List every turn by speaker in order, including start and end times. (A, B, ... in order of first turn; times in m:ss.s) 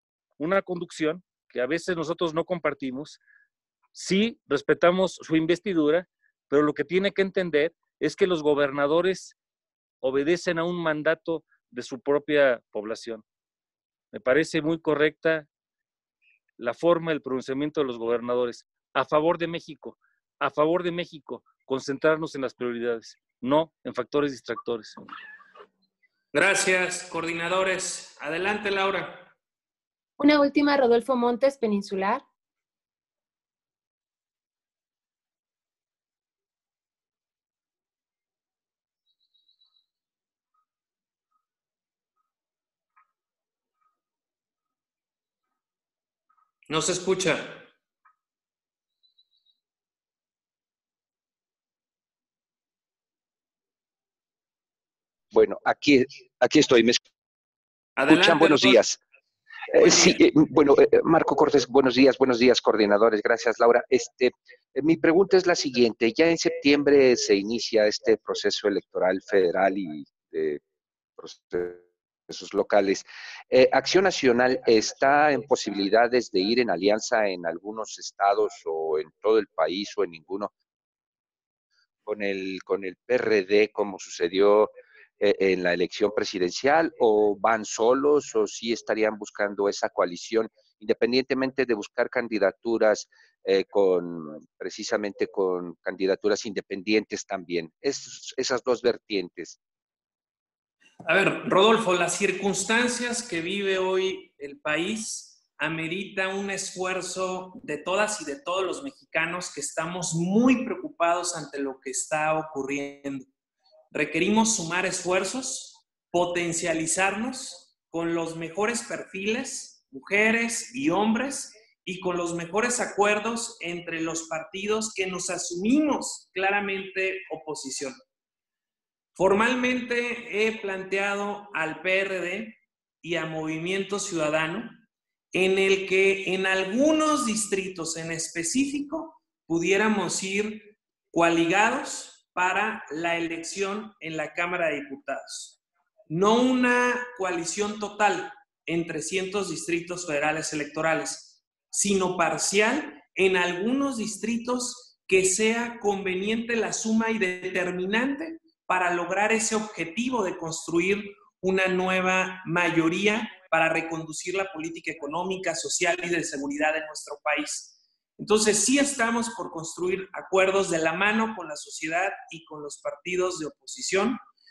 0:00.4-0:03.2 A
0:04.0-0:09.4 A
0:10.0-0:13.2 A
0:14.1-0:15.5 A
0:16.6-0:25.0 A
0:26.3-0:29.3 B
0:30.2-0:32.2 C
0:46.7-0:47.7 B
0:55.3-0:57.0 D
0:58.0-0:58.8 B
0:58.1-0:59.0 D
0:59.7-1:10.6 D
0:59.8-1:00.2 B
1:11.2-1:20.5 D
1:22.1-1:39.6 D
1:41.1-1:53.3 B
1:53.9-2:08.0 B
2:09.2-2:25.6 B
2:26.1-2:54.2 B